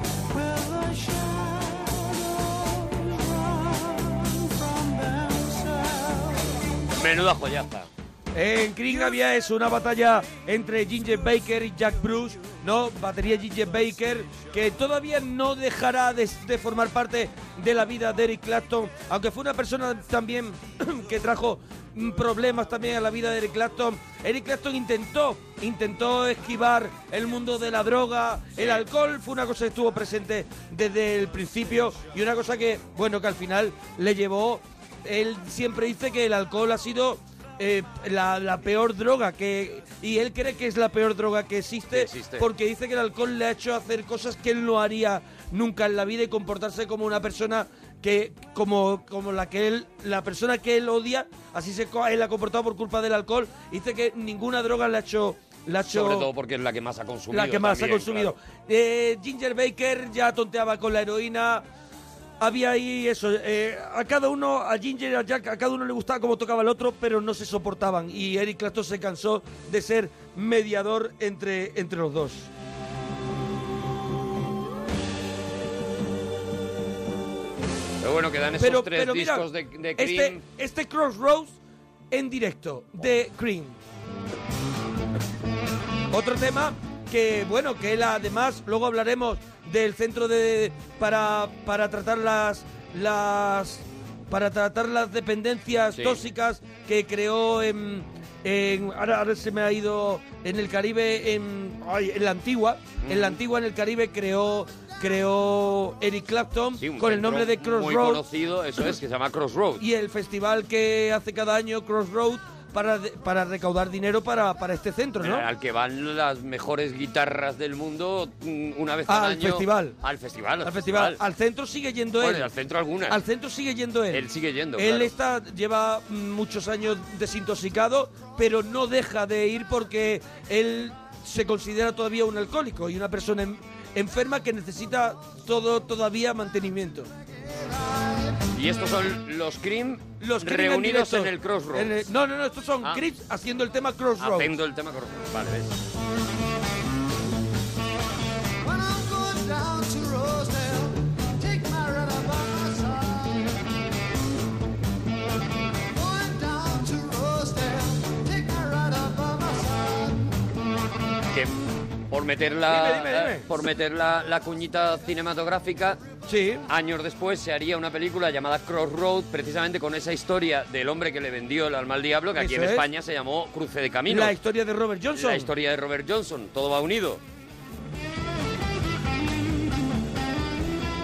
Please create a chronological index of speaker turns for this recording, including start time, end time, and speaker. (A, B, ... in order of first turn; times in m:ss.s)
0:00.3-0:06.6 A
0:07.0-0:07.9 B
0:08.3-0:56.3 C
0:13.8-0:14.5 A
0:28.6-0:28.8 B
0:41.9-0:42.5 B
0:55.8-0:58.3 B
0:57.3-1:01.6 C
1:02.4-1:12.5 C
1:18.0-1:20.4 B
1:18.6-1:21.6 C
1:22.1-1:23.8 C
1:26.1-1:48.2 C
1:35.9-1:36.2 B
1:43.0-1:43.4 B
1:46.8-1:49.8 B
1:49.8-1:55.5 C
1:55.2-2:01.2 B
1:59.1-2:00.0 C
2:00.6-2:02.5 C
2:02.2-2:03.2 B
2:03.1-2:04.2 C
2:04.1-2:05.1 B
2:04.8-2:17.1 C
2:18.5-2:22.0 B
2:20.2-2:24.5 C
2:24.2-2:25.8 B
2:28.6-2:33.6 A
2:35.9-2:40.3 A
2:42.1-2:46.0 B
2:42.7-2:43.4 C
2:46.3-2:46.6 C
2:46.7-2:54.3 B
2:52.4-2:52.8 C
2:54.1-2:55.5 C
2:55.1-2:57.2 B